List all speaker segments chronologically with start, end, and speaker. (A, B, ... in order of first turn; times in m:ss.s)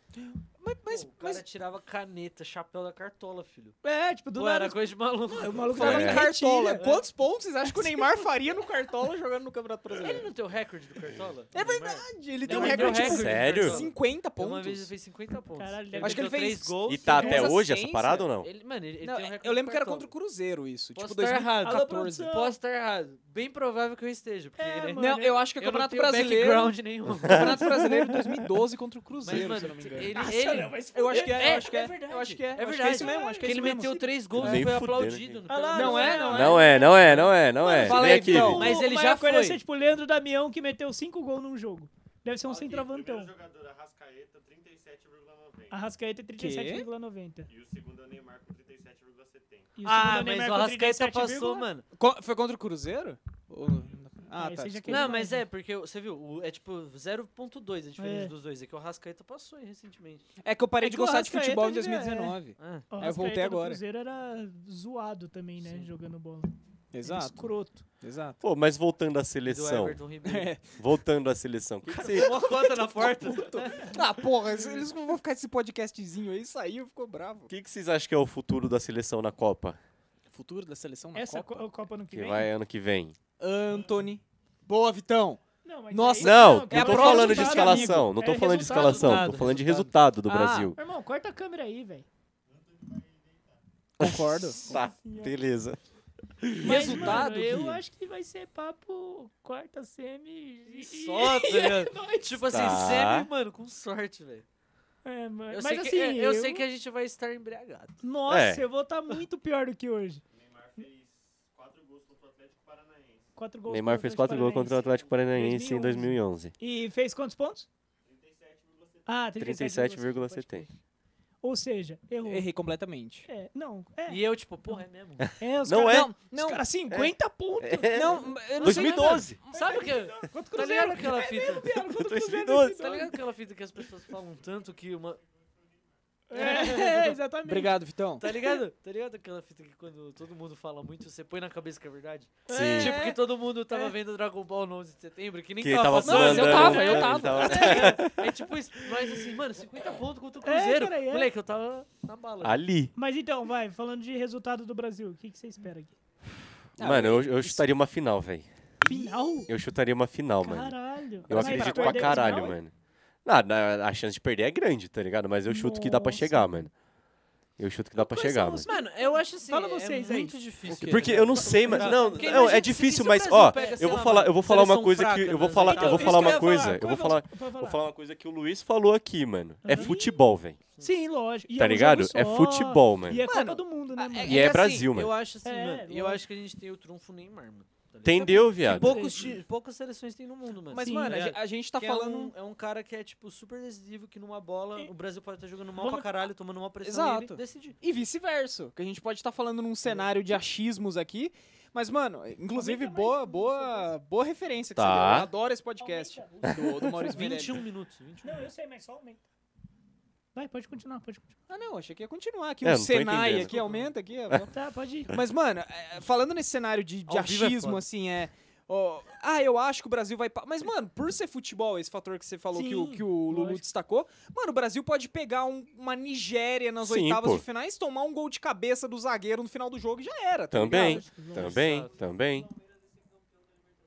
0:00.2-0:01.4 A
0:00.9-0:03.8 B
0:03.8-0:06.9 C
0:04.4-0:06.2 B
0:05.7-0:10.3 A
0:05.8-0:06.3 D
0:06.8-0:07.0 B
0:07.6-0:08.2 C
0:10.0-0:17.5 B
0:11.5-0:14.9 A
0:12.5-0:13.3 C
0:12.9-0:13.8 D
0:15.6-0:16.3 C
0:16.0-0:18.3 A
0:16.9-0:18.5 D
0:17.2-0:17.5 C
0:18.4-0:20.1 B
0:19.0-0:22.3 A
0:21.0-0:25.0 B
0:21.6-0:22.6 C
0:24.6-0:25.5 C
0:25.0-0:30.3 A
0:25.6-0:28.0 B
0:27.2-0:27.6 D
0:29.2-0:39.6 B
0:30.1-0:31.9 C
0:30.9-0:34.7 A
0:32.9-0:33.7 C
0:34.3-0:35.4 D
0:35.5-0:43.4 C
0:35.7-0:36.8 A
0:36.3-0:38.7 D
0:37.7-0:38.7 A
0:43.4-0:45.7 E
0:45.7-0:47.5 C
0:46.4-0:46.9 A
0:47.6-0:49.6 E
0:49.8-0:51.7 C
0:49.8-0:51.8 B
0:52.0-0:55.2 A
0:54.4-0:55.4 C
0:54.9-1:00.3 B
0:58.0-0:58.3 C
1:00.4-1:03.8 A
1:00.8-1:02.4 C
1:02.6-1:02.9 B
1:02.9-1:07.8 C
1:05.6-1:05.9 B
1:06.9-1:08.4 A
1:08.4-1:10.0 D
1:09.4-1:10.6 B
1:10.2-1:10.6 A
1:10.8-1:12.5 D
1:11.9-1:14.0 B
1:12.2-1:17.5 A
1:13.6-1:13.9 C
1:17.5-1:19.8 D
1:20.3-1:21.6 A
1:21.1-1:22.5 C
1:22.1-1:23.2 D
1:23.4-1:28.1 A
1:25.6-1:29.3 C
1:26.2-1:30.8 D
1:28.3-1:30.0 B
1:30.3-1:30.7 A
1:30.8-1:32.1 C
1:34.0-1:35.8 D
1:34.0-1:34.8 A
1:34.7-1:35.4 C
1:36.4-1:37.2 D
1:36.6-1:37.8 A
1:36.6-1:42.8 C
1:40.7-1:44.5 B
1:42.5-1:43.3 D
1:45.0-1:46.6 C
1:45.5-1:48.0 B
1:48.0-1:50.2 C
1:48.3-1:48.6 D
1:50.4-1:53.2 E
1:53.4-1:57.7 C
1:53.7-1:56.5 D
1:58.3-1:58.7 E
1:59.1-2:00.7 C
1:59.4-2:00.7 D
2:01.4-2:02.5 C
2:02.2-2:03.3 A
2:03.3-2:04.8 C
2:04.1-2:05.3 B
2:05.4-2:13.2 C
2:05.6-2:06.1 D
2:05.8-2:06.6 A
2:06.9-2:09.4 D
2:07.9-2:09.9 A
2:09.4-2:11.7 B
2:11.8-2:13.0 D
2:12.8-2:15.2 B
2:16.3-2:18.6 C
2:16.3-2:17.2 B
2:17.5-2:18.2 A
2:18.2-2:32.6 B
2:22.5-2:23.2 C
2:22.5-2:23.0 D
2:25.6-2:28.3 D
2:26.0-2:28.0 A
2:27.4-2:28.3 C
2:30.4-2:31.3 C
2:32.4-2:32.9 D
2:33.0-2:36.0 C
2:36.8-2:38.5 D
2:36.8-2:37.7 A
2:38.8-2:39.5 C
2:38.8-2:39.4 A
2:39.5-2:40.8 D
2:40.4-2:42.6 C
2:41.3-2:42.7 D
2:41.3-2:42.6 A
2:43.2-2:46.7 D
2:45.5-2:46.7 C
2:47.6-2:48.7 D
2:48.0-2:50.4 C
2:48.3-2:56.6 B
2:50.7-3:00.6 D
2:50.7-2:51.2 A
2:51.4-2:52.7 C
2:53.4-2:53.9 C
2:55.6-2:57.8 C
2:56.0-2:57.0 A
2:59.6-3:00.2 C
3:00.8-3:04.5 C
3:01.6-3:03.2 D
3:03.2-3:04.6 A
3:04.2-3:17.8 B
3:04.2-3:05.1 D
3:05.4-3:06.2 C
3:08.0-3:09.0 D
3:08.6-3:09.4 C
3:10.7-3:12.3 A
3:10.8-3:11.2 C
3:15.8-3:16.1 C
3:16.8-3:27.6 A
3:19.8-3:20.1 B
3:22.5-3:23.9 C
3:24.8-3:25.3 D
3:25.8-3:27.3 C
3:26.4-3:26.9 D
3:27.1-3:28.5 B
3:28.2-3:29.2 C
3:30.4-3:31.4 C
3:31.5-3:34.6 A
3:32.6-3:33.6 D
3:34.5-3:35.1 C
3:35.1-3:51.1 A
3:37.1-3:37.9 B
3:42.5-3:43.6 C
3:46.8-3:47.4 D
3:50.5-3:52.5 D
3:50.7-3:51.6 C
3:51.4-3:51.9 B